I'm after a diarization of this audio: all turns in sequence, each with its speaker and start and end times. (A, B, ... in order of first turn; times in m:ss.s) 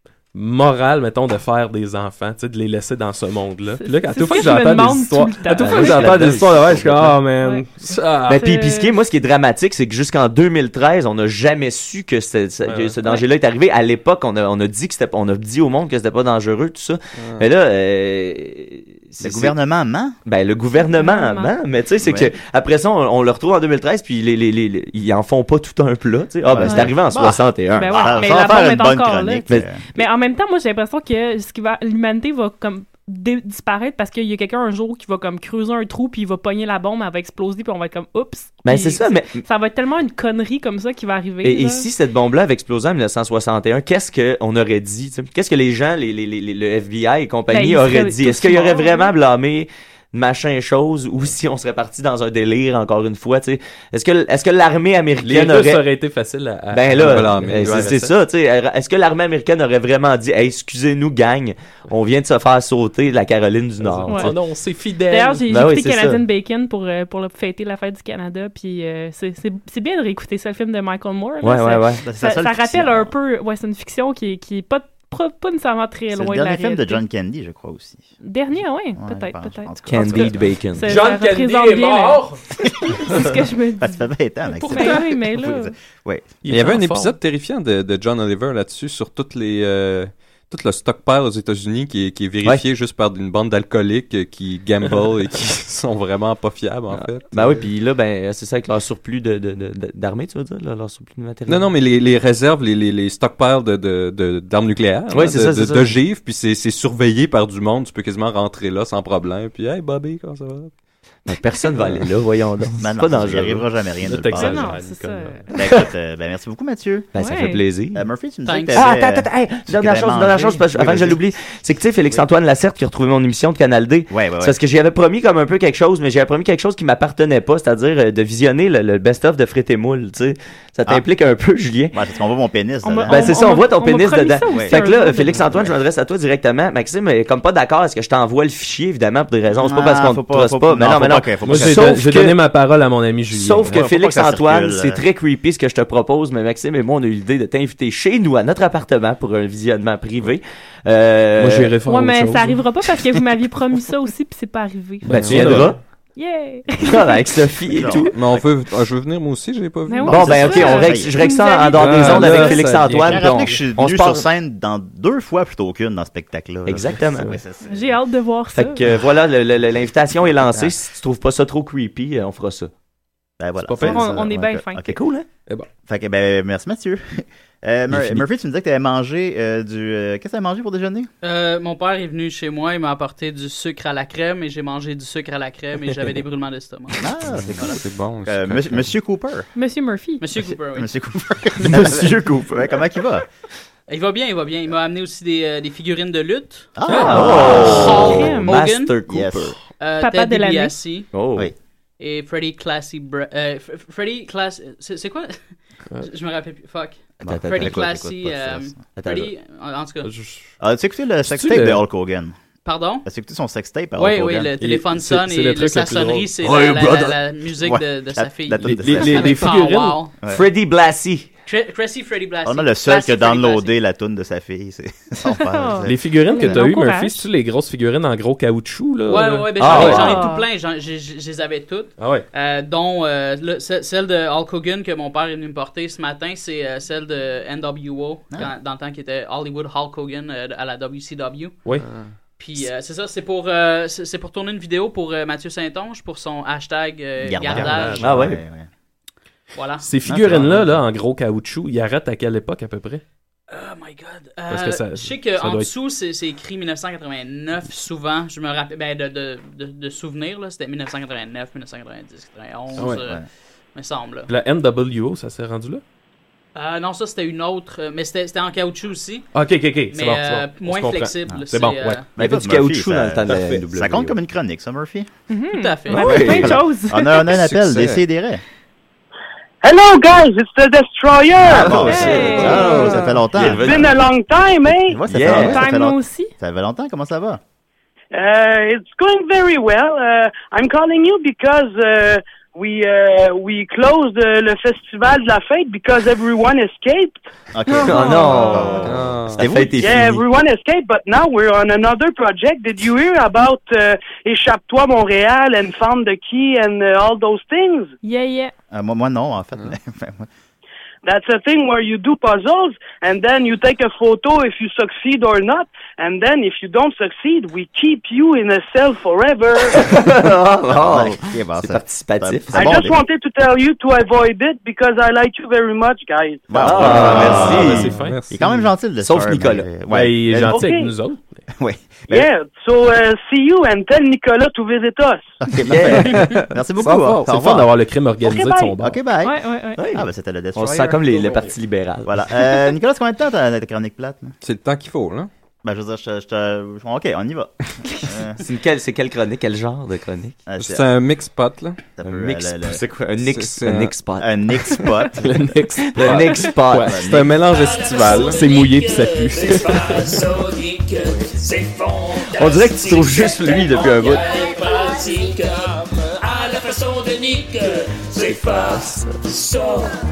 0:00.3-0:08.4 A
0:03.8-0:06.3 B
0:05.6-0:07.1 C
0:07.4-0:07.7 B
0:08.3-0:09.0 B
0:08.3-0:19.6 C
0:12.6-0:13.0 A
0:17.2-0:17.4 D
0:19.2-0:20.2 E
0:20.2-0:28.6 C
0:20.9-0:21.5 B
0:22.0-0:22.3 E
0:26.5-0:29.8 E
0:26.6-0:27.2 B
0:27.7-0:41.9 B
0:38.6-0:39.4 C
0:41.4-0:55.8 C
0:47.5-0:49.1 B
0:55.2-0:57.9 A
0:56.7-1:04.4 C
0:57.0-0:58.1 D
1:03.8-1:05.4 A
1:04.1-1:04.3 B
1:05.1-1:17.0 B
1:05.5-1:06.2 C
1:11.4-1:12.0 C
1:12.0-1:13.1 E
1:16.1-1:18.1 E
1:18.2-1:22.3 B
1:19.0-1:20.5 E
1:19.9-1:21.0 C
1:20.8-1:23.2 A
1:22.8-1:24.1 B
1:23.8-1:26.4 E
1:24.6-1:25.2 A
1:24.6-1:25.7 B
1:26.4-1:27.2 A
1:26.5-1:37.6 D
1:36.9-1:41.7 C
1:41.5-1:50.7 D
1:45.1-1:46.0 C
1:51.3-1:53.7 C
1:52.8-1:54.8 E
1:54.0-1:55.5 A
1:54.3-1:55.5 B
1:55.5-1:57.1 E
1:57.1-1:58.1 C
1:57.2-1:57.6 B
1:57.9-2:01.2 E
1:58.4-1:58.9 F
1:58.7-2:12.0 C
2:04.1-2:04.6 E
2:11.9-2:13.6 E
2:12.8-2:15.4 B
2:13.1-2:22.4 C
2:14.5-2:14.8 E
2:15.4-2:15.7 E
2:19.6-2:22.1 E
2:21.4-2:23.9 A
2:23.3-2:31.7 C
2:23.7-2:25.0 E
2:31.4-2:32.6 A
2:31.9-2:37.2 B
2:35.0-2:35.8 A
2:35.1-2:35.8 C
2:36.8-2:38.2 C
2:37.7-2:38.5 E
2:38.1-2:40.6 D
2:39.9-2:42.6 B
2:40.0-2:41.2 E
2:40.1-2:44.3 C
2:41.7-2:43.6 A
2:42.2-2:48.0 E
2:46.7-2:47.4 C
2:47.6-2:48.8 B
2:48.5-2:52.7 C
2:53.4-2:55.0 E
2:53.6-2:54.3 A
2:53.8-2:54.9 B
2:54.8-2:55.3 C
2:55.9-3:01.1 E
2:57.9-2:58.2 D
3:01.2-3:07.0 F
3:07.0-3:09.5 E
3:07.3-3:08.9 D
3:09.6-3:10.2 B
3:10.2-3:10.9 F
3:10.4-3:13.3 E
3:11.6-3:12.8 C
3:13.9-3:16.7 F
3:16.8-3:18.4 E
3:16.9-3:17.3 A
3:16.9-3:18.6 B
3:17.0-3:19.6 C
3:17.3-3:19.0 F
3:19.1-3:19.6 E
3:19.8-3:21.2 F
3:20.0-3:20.8 B
3:21.1-3:21.5 C
3:22.0-3:30.1 F
3:27.2-3:28.8 E
3:27.3-3:27.9 C
3:29.0-3:29.3 C
3:30.0-3:30.4 A
3:30.6-3:32.4 E
3:31.3-3:31.8 A
3:32.6-3:33.1 F
3:33.0-3:34.6 E
3:34.0-3:40.2 F
3:34.6-3:36.6 A
3:36.4-3:37.2 C
3:37.5-3:39.6 E
3:38.6-3:40.1 A
3:40.2-3:40.4 E
3:40.3-3:41.3 C
3:41.5-3:43.8 F
3:42.4-3:46.6 E
3:45.4-3:47.3 B
3:45.8-3:50.2 A
3:49.1-4:01.6 F
3:49.6-3:50.1 C
3:49.9-3:50.5 B
3:52.0-3:52.3 A
4:01.8-4:02.1 D
4:02.4-4:08.1 F
4:07.2-4:08.7 E
4:07.5-4:08.4 A
4:08.0-4:08.4 C
4:09.6-4:09.9 F
4:09.8-4:13.0 A
4:10.0-4:10.8 E
4:13.5-4:23.2 F
4:14.5-4:15.7 A
4:22.8-4:23.1 A
4:22.8-4:23.2 E
4:23.8-4:24.3 F
4:24.3-4:25.8 A
4:26.6-4:29.3 F
4:29.3-4:32.1 A
4:29.9-4:32.1 F
4:32.2-4:35.1 E
4:32.2-4:34.2 C
4:33.3-4:33.6 A
4:35.3-4:37.3 B
4:35.5-4:36.4 F
4:35.9-4:38.4 E
4:36.0-4:36.5 C
4:37.2-4:38.0 D
4:39.6-4:41.9 G
4:41.4-4:44.0 E
4:41.4-4:44.0 C
4:41.8-4:43.1 B
4:43.4-4:45.0 G
4:44.7-4:47.4 E
4:45.1-4:45.7 C
4:45.3-4:46.3 B
4:48.1-4:57.2 G
4:57.5-5:00.2 E
4:57.7-4:58.8 B
4:57.8-5:00.2 C
4:58.8-4:59.4 D
4:59.8-5:07.9 G
5:08.0-5:08.5 B
5:08.7-5:10.3 E
5:11.0-5:19.8 G
5:19.7-5:22.9 C
5:20.7-5:23.0 E
5:22.5-5:26.6 G
5:26.5-5:30.7 E
5:26.6-5:27.9 C
5:26.7-5:28.6 A
5:26.8-5:28.5 D
5:29.0-5:29.7 C
5:29.9-5:31.2 A
5:30.5-5:30.9 G
5:31.6-5:32.3 E
5:32.1-5:35.4 G
5:35.4-5:37.7 E
5:35.7-5:36.2 C
5:36.8-5:39.0 A
5:38.2-5:38.7 G
5:38.8-5:41.0 E
5:39.2-5:39.8 B
5:39.8-5:42.1 C
5:41.0-5:41.5 A
5:42.0-5:44.4 E
5:44.4-5:45.3 D
5:45.6-5:48.4 E
5:48.4-5:50.4 C
5:50.5-5:50.9 E
5:50.6-5:51.8 D
5:52.0-5:52.8 E
5:52.0-5:54.3 C
5:53.3-5:54.0 D
5:54.2-5:55.3 E
5:55.1-5:57.4 A
5:55.9-5:57.0 C
5:56.0-5:57.3 E
5:57.0-5:58.4 D
5:57.6-6:09.9 H
5:58.0-6:00.3 A
6:02.3-6:04.3 C
6:08.4-6:09.0 C